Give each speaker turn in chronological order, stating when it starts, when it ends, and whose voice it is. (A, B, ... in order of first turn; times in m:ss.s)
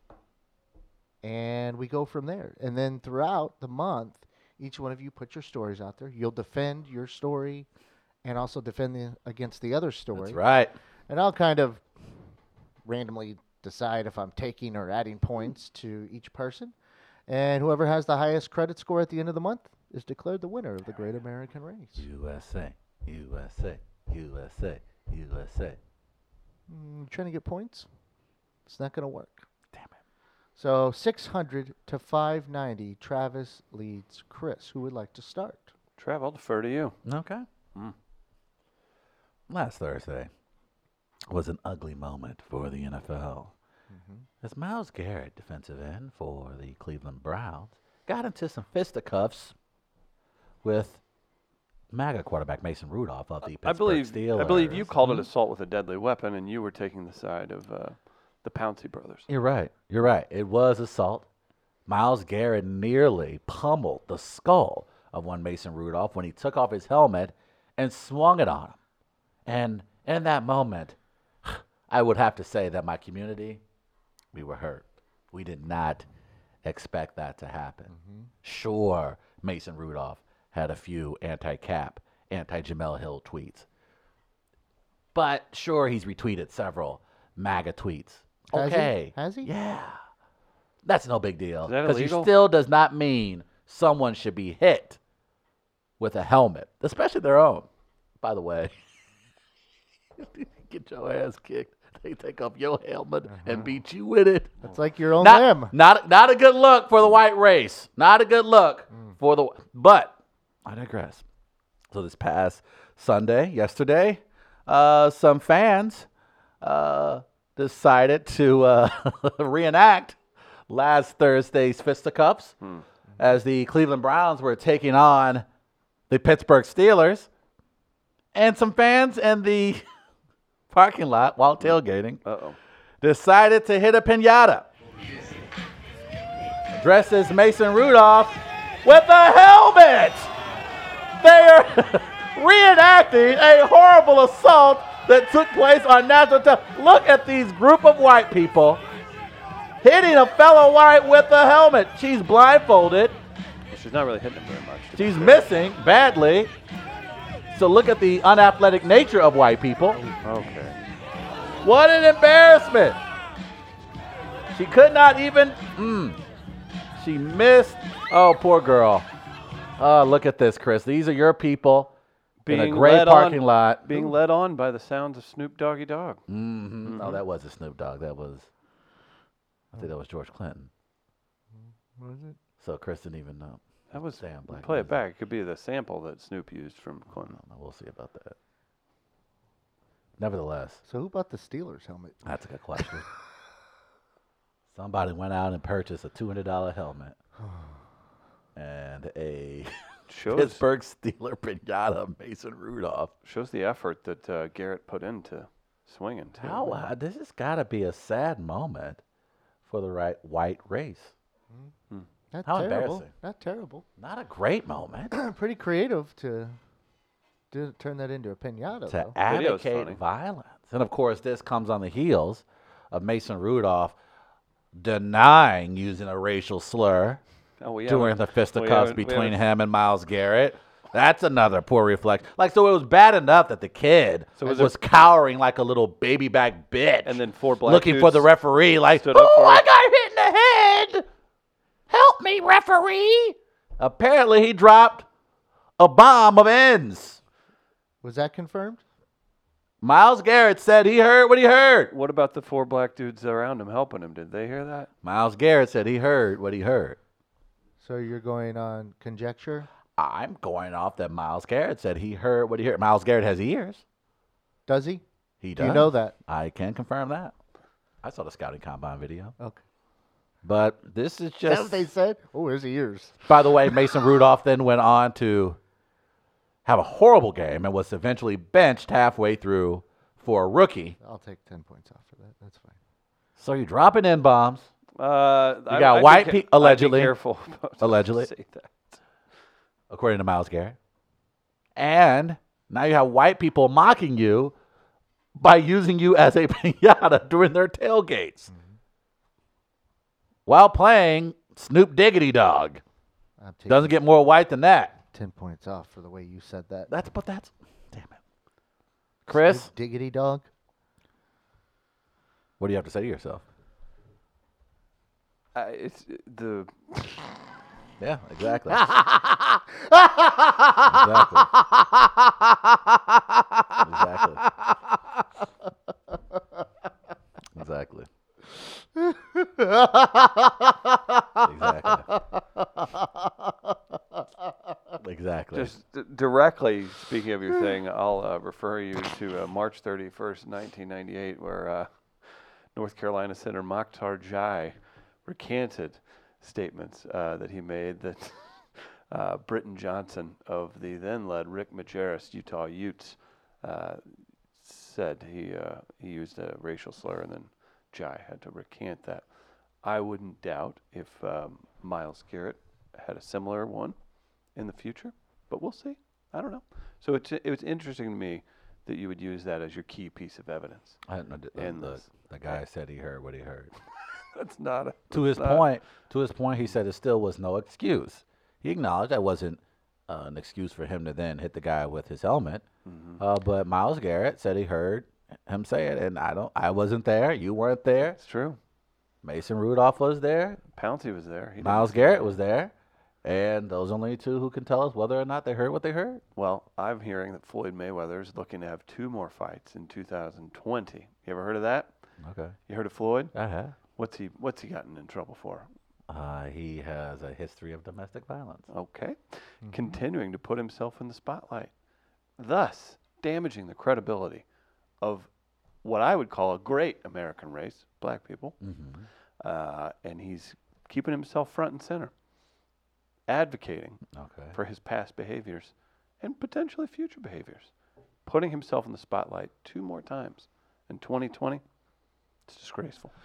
0:01.2-0:07.7 A
0:08.2-0:10.4 A
0:10.1-0:10.7 B
0:11.1-0:11.8 A
0:12.9-0:16.7 A
0:17.3-0:22.1 A
0:22.0-0:25.8 B
0:26.7-0:27.9 A
0:28.7-0:29.5 A
0:30.6-0:35.7 A
0:36.0-0:37.0 C
0:37.0-0:37.5 B
0:39.5-0:40.3 B
0:41.3-0:43.5 B
0:43.9-0:44.3 A
0:44.4-0:49.6 B
0:50.6-0:51.0 B
0:51.9-0:55.3 B
0:53.5-0:59.3 C
0:59.3-1:01.3 B
1:01.9-1:08.8 B
1:09.5-1:13.6 B
1:14.3-1:16.0 B
1:16.6-1:17.9 B
1:17.9-1:18.3 A
1:18.4-1:23.7 B
1:25.1-1:30.0 B
1:28.5-1:29.5 A
1:30.8-1:35.0 B
1:31.6-1:32.3 C
1:36.0-1:37.7 B
1:38.2-1:38.7 B
1:40.2-1:44.6 B
1:43.3-1:43.7 A
1:44.6-1:45.7 A
1:45.2-1:51.2 B
1:51.9-1:56.1 B
1:56.6-2:02.6 B
2:03.2-2:05.4 B
2:06.1-2:07.3 B
2:08.4-2:09.8 B
2:10.7-2:12.2 B
2:11.6-2:12.6 C
2:13.0-2:14.7 B
2:16.7-2:20.3 B
2:21.2-2:28.8 B
2:29.8-2:33.2 B
2:33.7-2:35.5 C
2:35.0-2:36.5 B
2:37.5-2:40.0 B
2:40.2-2:40.8 C
2:41.6-2:43.0 B
2:44.5-2:46.2 B
2:47.0-2:49.1 B
2:49.8-2:51.9 B
2:52.4-2:56.2 C
2:52.5-2:54.1 B
2:56.3-2:58.5 B
2:56.8-2:57.2 C
2:59.7-3:00.7 B
3:02.0-3:02.4 A
3:02.6-3:04.9 B
3:03.9-3:07.4 C
3:07.3-3:08.4 B
3:10.2-3:10.8 B
3:10.9-3:12.2 A
3:12.2-3:13.1 B
3:14.7-3:17.2 B
3:17.4-3:17.8 A
3:18.6-3:19.8 B
3:20.1-3:20.6 C
3:20.3-3:23.1 B
3:23.2-3:26.9 C
3:26.4-3:29.0 B
3:29.7-3:31.1 B
3:32.3-3:33.8 A
3:32.5-3:33.1 B
3:34.0-3:35.1 B
3:35.1-3:36.6 A
3:37.5-3:39.2 A
3:38.9-3:44.0 B
3:39.2-3:40.0 C
3:44.7-3:47.2 B
3:47.6-3:49.4 C
3:47.9-4:01.1 B
3:54.4-3:54.8 C
3:57.0-3:58.3 C
3:58.9-3:59.6 C
4:01.9-4:05.1 B
4:05.8-4:07.2 B
4:08.0-4:08.8 A
4:09.8-4:11.9 B
4:11.9-4:14.9 C
4:15.0-4:17.0 B
4:17.8-4:19.7 A
4:20.0-4:23.8 B
4:24.7-4:25.0 A
4:25.4-4:27.4 B
4:25.6-4:26.1 A
4:28.0-4:29.4 B
4:30.4-4:31.9 B
4:31.4-4:33.7 A
4:33.3-4:35.6 B
4:36.7-4:41.0 B
4:41.0-4:42.8 A
4:43.4-4:44.7 B
4:45.0-4:49.0 C
4:45.7-4:47.2 B
4:47.8-4:48.3 B
4:49.9-4:50.8 B
4:51.8-4:54.6 B
4:55.4-4:58.5 B
4:58.5-4:58.8 A
5:00.5-5:02.8 B
5:03.4-5:04.0 A
5:03.7-5:05.0 B
5:05.1-5:06.9 A
5:06.9-5:08.2 B
5:09.3-5:09.7 B
5:09.3-5:10.5 A
5:12.6-5:13.4 B
5:15.6-5:17.3 C
5:18.0-5:19.0 B
5:18.9-5:19.2 A
5:19.8-5:23.2 A
5:20.8-5:21.5 B
5:23.8-5:24.4 B
5:27.5-5:28.1 B
5:29.0-5:34.2 A
5:31.4-5:32.1 B
5:35.0-5:35.7 B
5:35.5-5:59.3 C
5:59.8-6:04.0 C
6:04.6-6:11.0 C
6:11.1-6:13.7 B
6:11.6-6:12.6 C
6:14.4-6:15.7 C
6:15.1-6:22.6 B
6:22.8-6:23.2 C
6:23.2-6:28.2 B
6:28.2-6:28.6 C
6:29.2-6:30.6 B
6:30.7-6:32.4 C
6:31.6-6:32.7 B
6:33.2-6:36.2 B
6:36.4-6:41.9 C
6:42.2-6:42.6 B
6:42.7-6:43.3 C
6:43.3-6:43.8 B
6:44.0-6:45.7 C
6:46.1-6:48.7 B
6:48.7-6:51.7 C
6:52.4-6:54.4 C
6:55.0-6:55.3 C
6:55.8-6:58.6 C
6:58.6-6:59.1 B
6:59.4-7:02.1 C
7:03.3-7:04.0 C
7:04.1-7:04.6 B
7:04.5-7:07.7 C
7:08.3-7:11.6 C
7:12.5-7:13.1 C